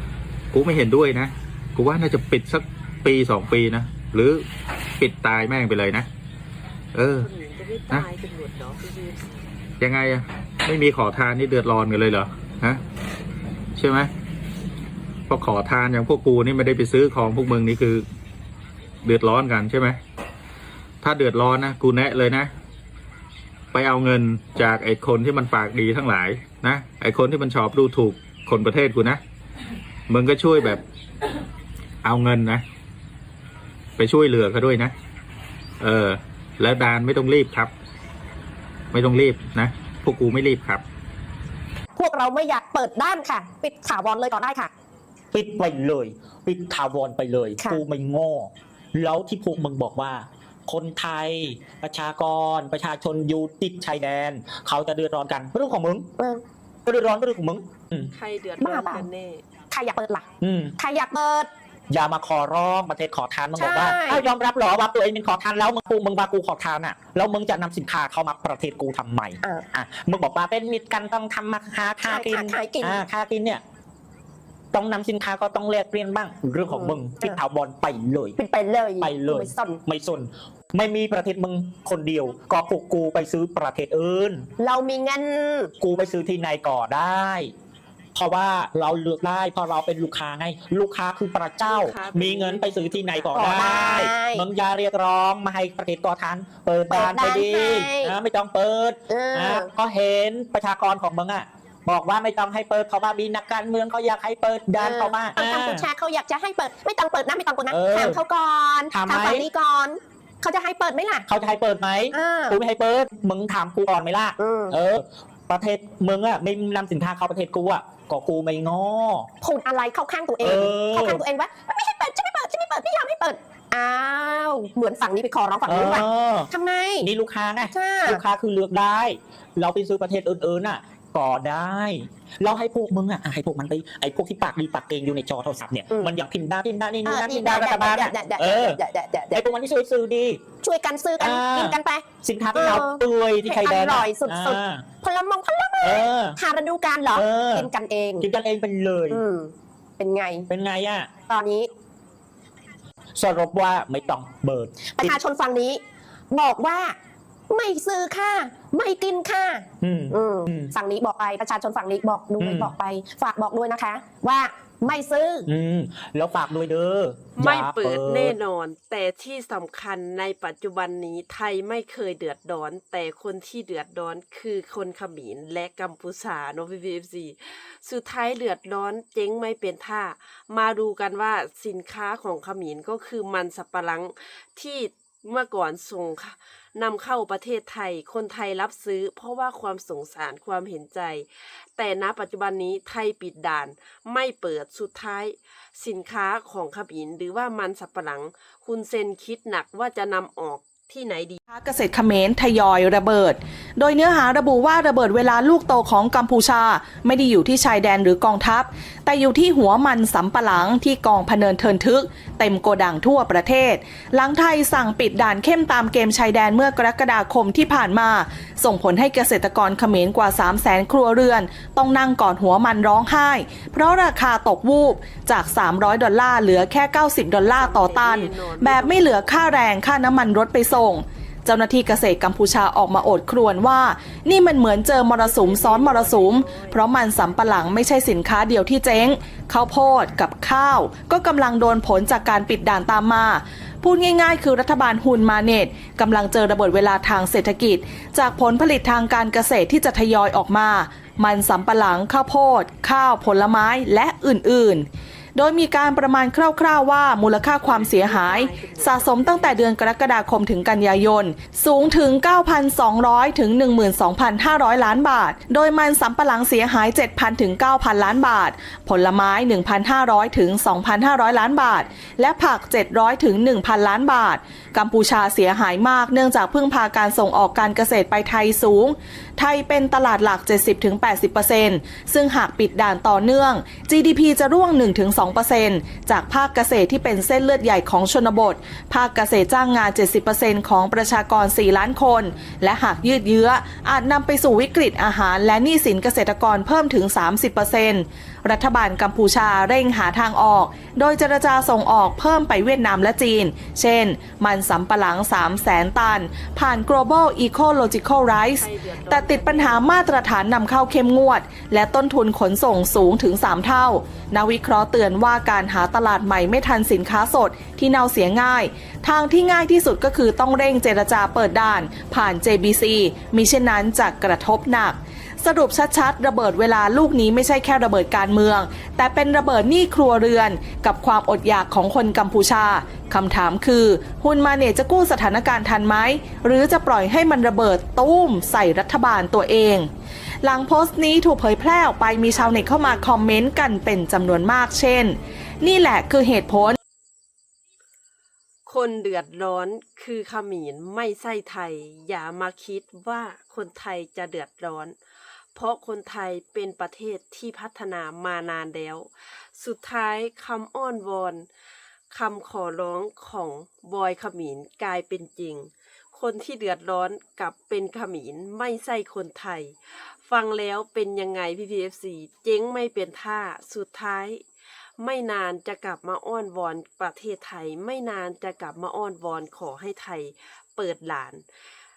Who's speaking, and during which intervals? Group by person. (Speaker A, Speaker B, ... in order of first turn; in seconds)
Speaker A: 0.5-4.4, 5.0-6.1, 6.9-7.3, 9.8-12.8, 13.8-14.1, 15.3-18.0, 19.0-20.0, 21.0-22.5, 23.7-29.2, 30.1-30.8, 32.0-32.6, 34.0-34.9, 35.8-37.7, 38.9-40.8
Speaker B: 7.2-9.4, 58.1-59.4, 91.6-93.4, 167.4-201.4, 227.5-229.3, 235.2-236.8, 257.6-259.7, 308.4-310.1, 342.1-343.2, 348.6-355.0, 355.5-361.5, 362.1-374.4, 375.0-381.5
Speaker C: 42.0-44.7, 56.2-56.4, 58.6-59.0, 59.7-60.3, 60.8-61.5, 63.5-64.2, 72.1-73.0, 76.7-77.4, 78.4-79.8, 84.6-85.7, 93.3-94.5, 96.9-98.1, 99.1-99.7, 104.8-111.2, 112.1-112.6, 114.4-114.7, 119.4-127.1, 127.6-128.2, 137.0-139.4, 140.6-148.2, 149.1-150.5, 151.2-151.7, 155.0-156.9, 157.5-165.5
Speaker D: 45.3-56.1, 56.9-58.1, 60.4-60.7, 61.9-73.6, 74.7-78.4, 79.0-84.5, 85.8-87.5, 88.1-105.9, 107.7-108.2, 108.9-109.5, 111.3-119.3, 120.4-121.2, 125.7-126.5, 127.0-138.8, 139.3-140.4, 141.2-144.8, 145.8-146.4, 147.1-149.2, 150.5-151.1, 153.2-155.2, 159.8-160.7, 162.4-162.7, 165.4-168.4
Speaker E: 201.5-339.9, 340.4-346.8